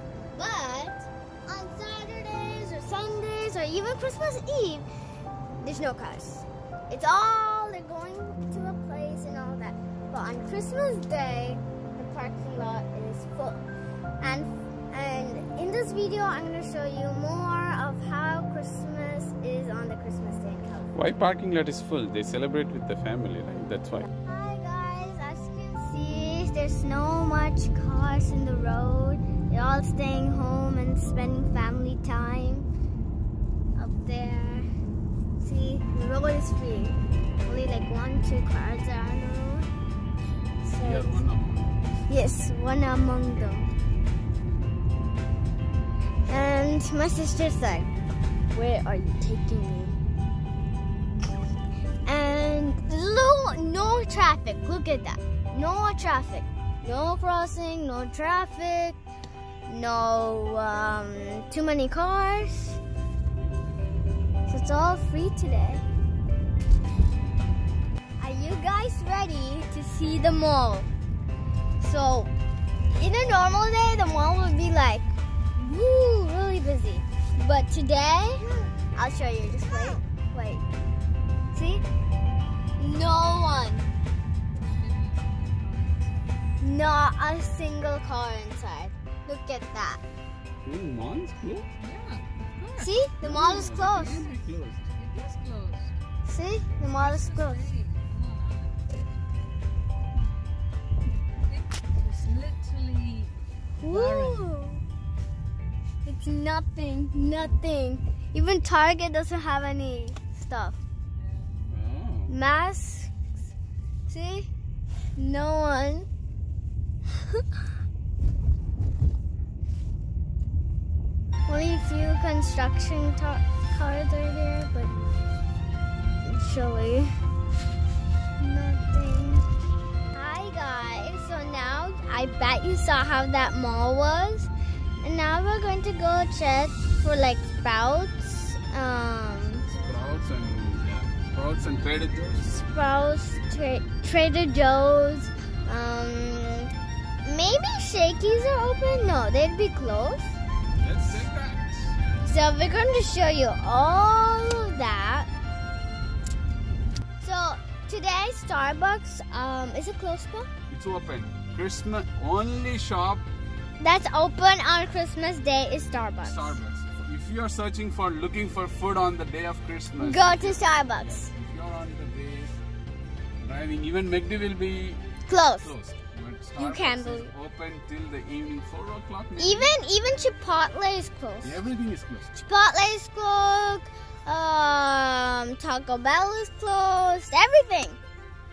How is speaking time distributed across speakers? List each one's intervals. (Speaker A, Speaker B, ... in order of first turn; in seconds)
Speaker A: 0.3-4.8, 5.6-13.6, 14.2-20.9, 24.0-32.7, 33.8-34.7, 35.4-39.7, 40.6-41.2, 42.1-43.7, 46.3-47.9, 48.5-50.0, 52.0-59.0, 59.7-62.8, 64.5-65.8, 68.2-70.9, 71.8-72.3, 72.9-80.6, 81.5-81.8, 82.8-83.9, 86.6-90.0, 92.8-94.2, 96.2-97.7, 103.8-104.8, 106.0-110.8, 112.3-113.1, 114.1-114.5, 115.2-116.1, 121.5-124.9, 126.2-127.1, 128.4-129.5, 130.1-134.5, 135.0-139.7, 142.4-146.7, 147.2-150.4, 152.2-155.3, 157.2-160.5, 163.8-166.6, 170.0-171.3, 175.3-175.7, 176.5-177.3, 179.4-181.6, 182.3-188.0
Speaker B: 20.9-24.1, 40.8-42.0, 90.6-91.7, 93.2-94.8, 111.7-112.3, 139.7-142.4, 150.8-152.0, 160.7-163.2, 166.2-172.5, 173.4-175.0, 175.6-179.7, 181.4-182.3
Speaker C: 84.5-86.3, 91.8-93.0, 94.9-96.0, 96.8-99.0, 101.5-104.5, 111.2-111.5